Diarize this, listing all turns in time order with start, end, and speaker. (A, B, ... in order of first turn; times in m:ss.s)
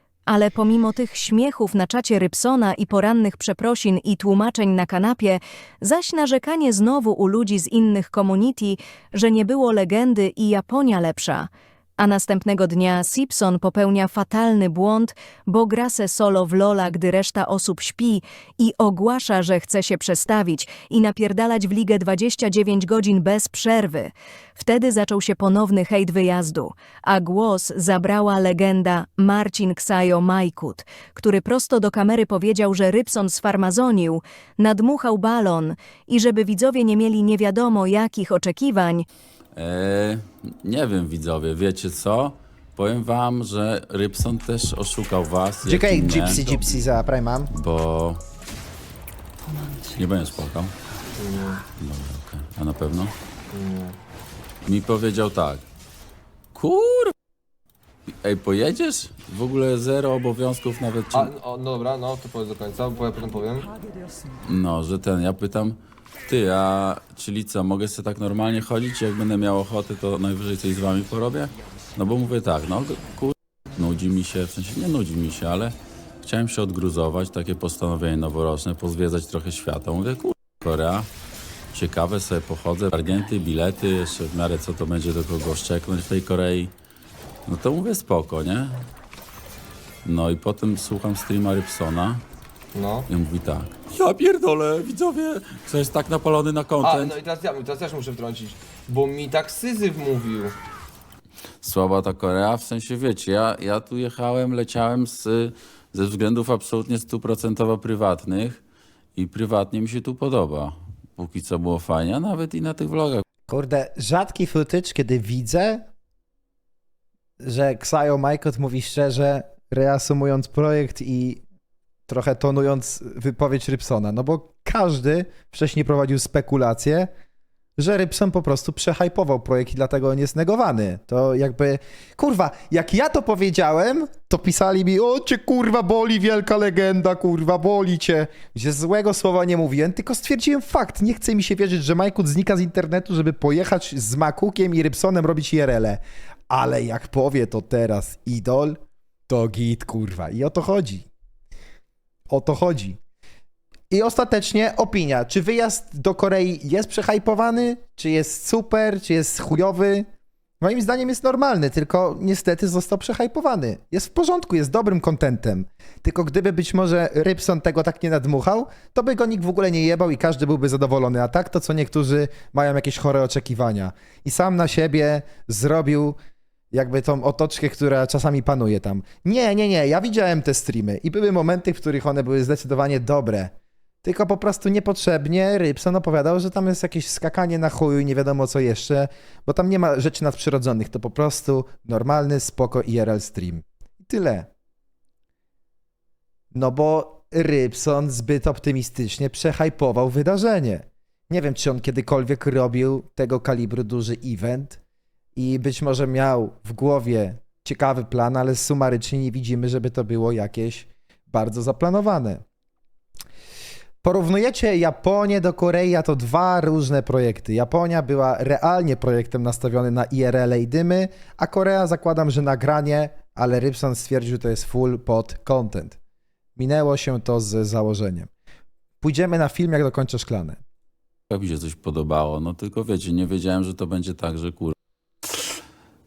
0:00.3-0:39.1 A
0:39.5-0:46.9 B
0:45.6-0:47.5 C
0:47.5-0:48.2 B
0:49.8-0:50.7 B
0:51.2-0:51.6 D
0:51.8-0:53.1 B
0:53.5-0:54.0 D
0:54.6-0:55.6 B
0:56.5-0:57.1 B
0:58.2-1:01.3 B
1:01.1-1:03.6 D
1:04.4-1:21.1 B
1:21.7-1:26.7 B
1:27.4-1:28.8 B
1:30.0-1:32.2 B
1:32.7-1:33.1 D
1:33.1-1:37.2 B
1:36.8-1:40.5 D
1:41.6-1:48.6 B
1:49.1-1:53.2 B
1:53.5-1:55.8 C
1:57.4-2:01.4 C
2:02.1-2:07.1 C
2:07.8-2:28.8 C
2:29.3-2:31.1 C
2:32.3-2:33.0 C
2:33.9-2:40.1 C
2:40.6-2:56.2 C
2:56.7-3:14.5 C
3:16.5-3:24.8 C
3:25.4-3:32.4 C
3:34.0-3:46.0 C
3:46.6-3:48.3 C
3:49.0-3:50.6 C
3:51.3-3:54.7 B